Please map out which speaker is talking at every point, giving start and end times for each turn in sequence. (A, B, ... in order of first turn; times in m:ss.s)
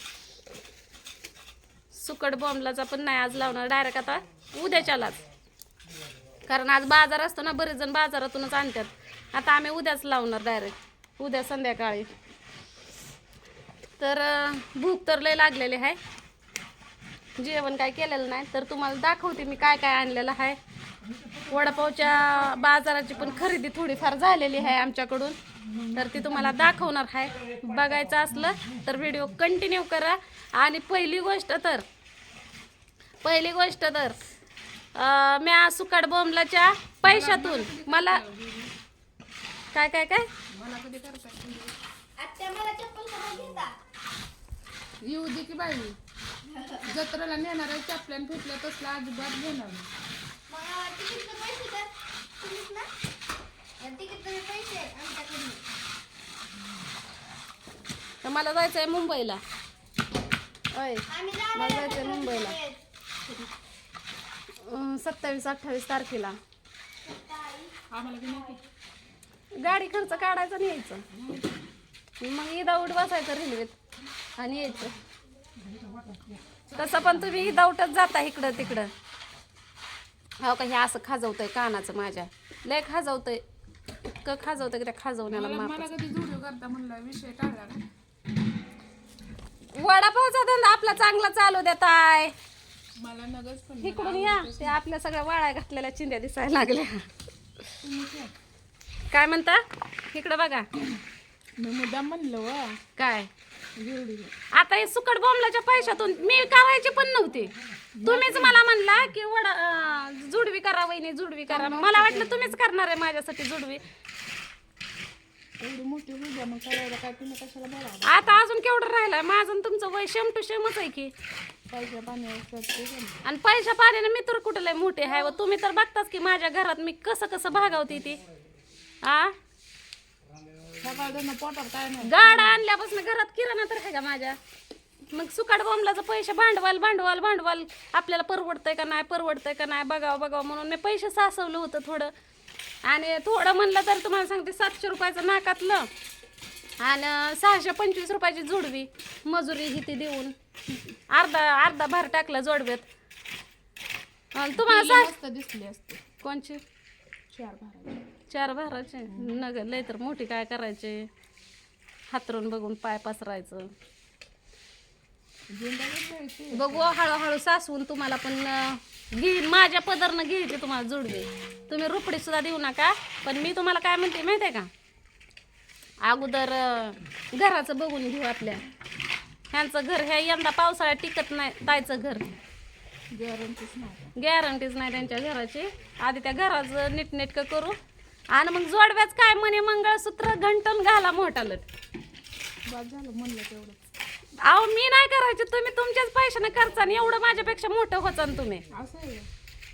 0:01.9-0:05.2 A
0:06.5-0:12.1 A
0:14.0-0:16.0 A
0:17.4-0:20.6 A
0:21.5-0:25.4 A
0:25.9-0:31.8 A
0:33.2-0:34.2 A
0:35.0-0:38.2 A
0:37.0-0:38.7 B
0:39.7-0:40.3 A
0:40.5-0:41.8 B
0:42.2-0:43.8 C
0:45.0-0:46.0 B
0:46.5-0:46.9 C
0:46.8-0:49.9 B
0:50.5-0:52.9 C
0:53.8-0:55.6 C
0:58.2-0:59.4 A
1:00.7-1:02.6 A
1:01.1-1:02.8 C
1:04.6-1:06.4 A
1:07.0-1:08.6 C
1:07.9-1:08.6 B
1:09.6-1:11.0 A
1:11.1-1:11.5 B
1:12.2-1:13.8 A
1:14.4-1:15.0 A
1:16.7-1:18.9 A
1:16.8-1:17.1 B
1:20.4-1:23.4 A
1:24.1-1:25.9 A
1:25.3-1:27.8 B
1:29.7-1:32.3 A
1:33.0-1:34.8 B
1:33.8-1:37.1 A
1:37.8-1:38.3 B
1:39.1-1:40.7 A
1:41.6-1:42.8 B
1:43.0-1:43.3 A
1:43.8-1:44.3 B
1:44.5-1:47.5 A
1:48.0-1:48.6 B
1:48.0-1:53.8 A
1:51.5-1:52.6 B
1:55.6-1:58.4 B
1:58.0-2:01.1 A
2:01.7-2:03.2 B
2:03.2-2:08.2 A
2:09.0-2:09.3 A
2:10.8-2:12.6 B
2:12.0-2:14.4 A
2:15.1-2:22.1 A
2:22.8-2:25.9 A
2:26.8-2:30.3 A
2:31.1-2:32.9 A
2:34.4-2:35.1 A
2:34.6-2:36.0 B
2:36.2-2:36.6 A
2:37.3-2:38.0 B
2:38.3-2:41.1 A
2:39.1-2:39.4 B
2:42.1-2:43.7 A
2:45.5-2:47.0 B
2:46.5-2:54.7 A
2:56.0-2:58.6 A
2:59.5-3:02.3 A
3:03.1-3:04.1 B
3:04.2-3:07.8 A
3:08.3-3:11.6 A
3:12.7-3:13.9 B
3:14.4-3:18.7 A
3:18.7-3:19.3 B